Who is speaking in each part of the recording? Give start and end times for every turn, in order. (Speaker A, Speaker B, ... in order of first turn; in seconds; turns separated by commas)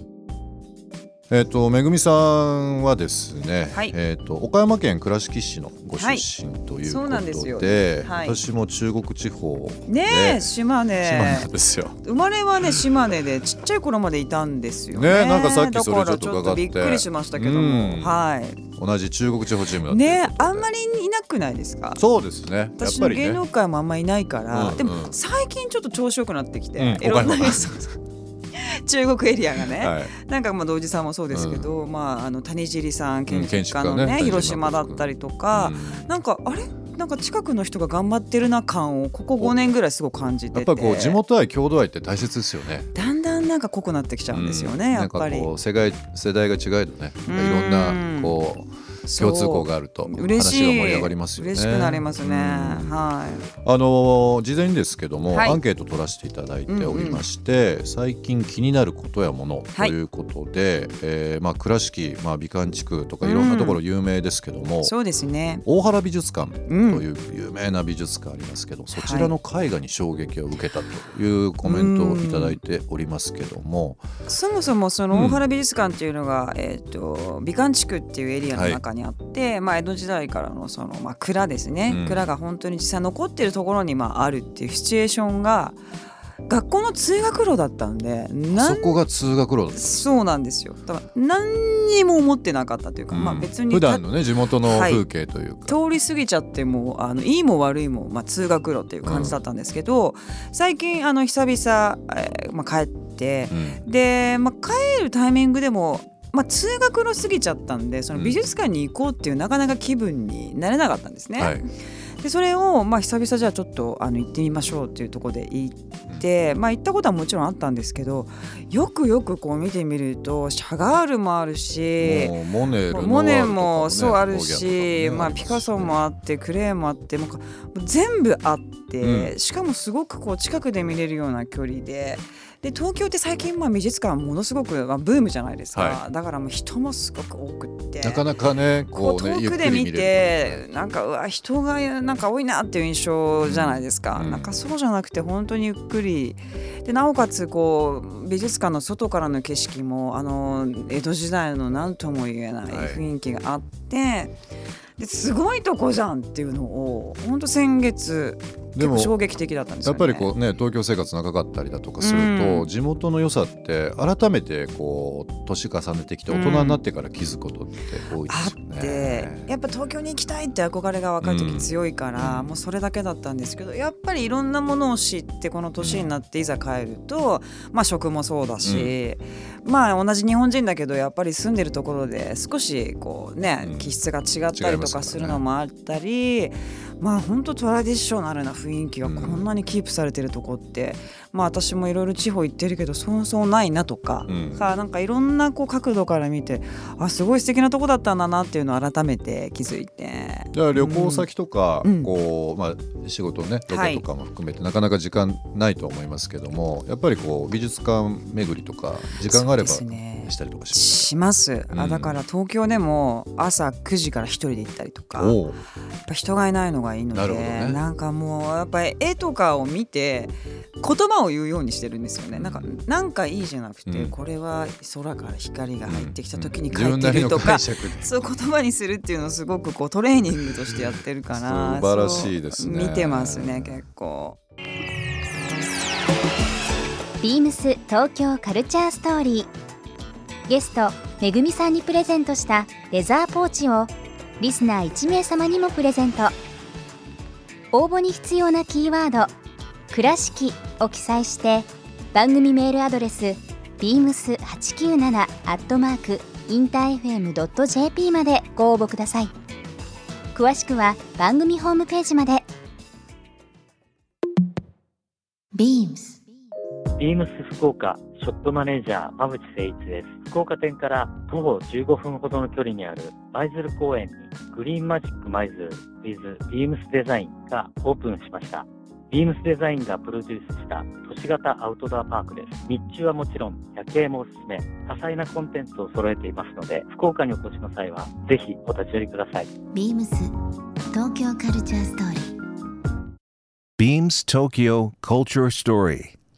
Speaker A: 1.3-12.0, Speaker B: 6.0-6.2, Speaker B: 6.8-8.4, Speaker B: 9.9-11.5, Speaker B: 12.0-18.6, Speaker A: 14.9-18.1, Speaker A: 18.8-20.7, Speaker B: 19.9-22.0, Speaker A: 22.0-23.4, Speaker B: 22.7-27.9, Speaker A: 24.5-25.2, Speaker A: 26.8-27.9, Speaker B: 28.5-41.2, Speaker A: 29.7-30.1, Speaker A: 31.3-31.7, Speaker A: 33.3-36.1, Speaker A: 40.5-43.1, Speaker B: 42.9-45.5, Speaker A: 44.3-53.0, Speaker B: 47.2-48.4, Speaker B: 49.0-53.5, Speaker A: 53.6-64.9, Speaker B: 55.3-55.6, Speaker B: 56.7-57.2, Speaker B: 63.2-63.8, Speaker B: 64.8-65.6, Speaker A: 65.6-74.0, Speaker B: 66.7-67.0, Speaker B: 68.9-69.3, Speaker B: 71.6-72.6, Speaker B: 74.3-85.8, Speaker A: 75.1-75.4, Speaker A: 78.5-78.8, Speaker A: 81.9-82.2, Speaker B: 86.5-89.0, Speaker A: 88.5-90.0, Speaker B: 89.7-94.1, Speaker A: 93.1-95.7, Speaker B: 94.6-95.0, Speaker B: 95.6-111.7, Speaker A: 99.0-99.4, Speaker A: 103.5-103.9, Speaker A: 111.4-111.7, Speaker B: 112.2-138.2, Speaker A: 122.0-126.0, Speaker A: 129.0-129.3, Speaker A: 135.7-136.0, Speaker A: 138.0-140.6, Speaker B: 138.9-154.3, Speaker A: 143.4-144.6, Speaker A: 152.7-153.0, Speaker B: 155.0-160.3, Speaker A: 158.8-159.2, Speaker A: 159.8-169.5, Speaker B: 162.0-162.7, Speaker B: 166.3-166.8, Speaker B: 168.2-201.3, Speaker A: 171.2-172.5, Speaker A: 175.8-176.1, Speaker A: 178.6-178.9, Speaker A: 183.6-184.0, Speaker A: 184.5-185.4, Speaker A: 189.0-189.4, Speaker A: 194.3-194.6, Speaker A: 200.5-211.1, Speaker B: 201.8-202.1, Speaker B: 203.7-204.0, Speaker B: 209.3-215.4, Speaker A: 211.7-212.2, Speaker A: 215.2-215.6, Speaker B: 216.1-234.4, Speaker A: 217.1-217.8, Speaker A: 222.3-222.7, Speaker A: 223.8-224.1, Speaker A: 225.9-228.1, Speaker A: 231.3-233.8, Speaker C: 237.2-239.5, Speaker C: 240.5-246.3, Speaker C: 247.7-249.3, Speaker C: 249.9-259.3, Speaker C: 260.3-262.4, Speaker D: 265.5-266.2, Speaker E: 267.0-289.5, Speaker D: 289.7-290.3, Speaker D: 290.9-292.3, Speaker F: 293.8-296.1